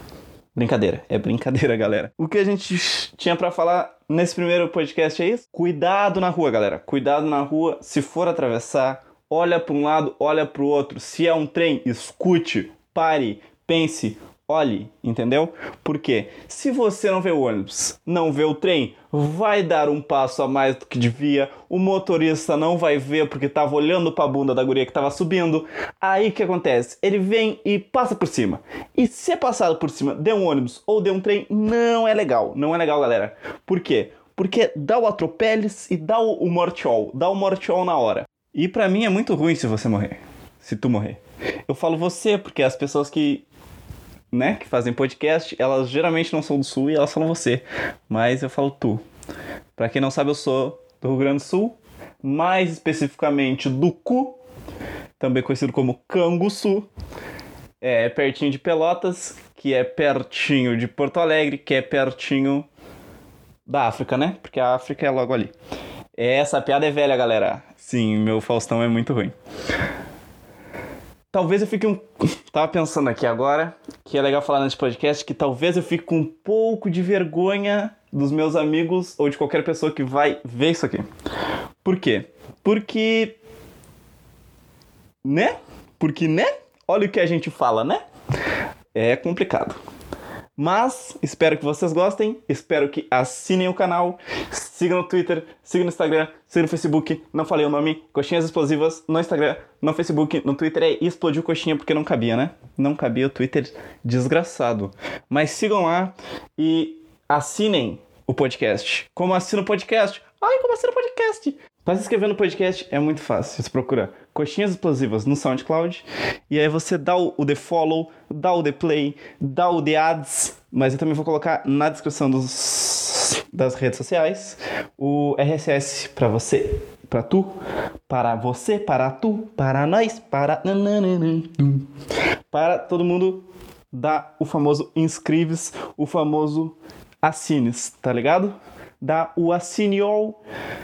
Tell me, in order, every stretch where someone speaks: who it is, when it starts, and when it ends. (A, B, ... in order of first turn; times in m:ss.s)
0:00.6-0:43.4 A
0:44.3-0:49.0 A
0:49.8-0:54.4 A
0:55.2-0:56.9 A
0:57.8-1:02.7 A
1:03.7-1:05.5 A
1:06.2-1:09.4 A
1:11.3-1:21.1 A
1:21.8-1:23.4 A
1:25.2-1:28.0 A
1:29.0-1:29.8 A
1:30.6-2:07.5 A
2:08.1-2:11.9 A
2:12.5-2:20.4 A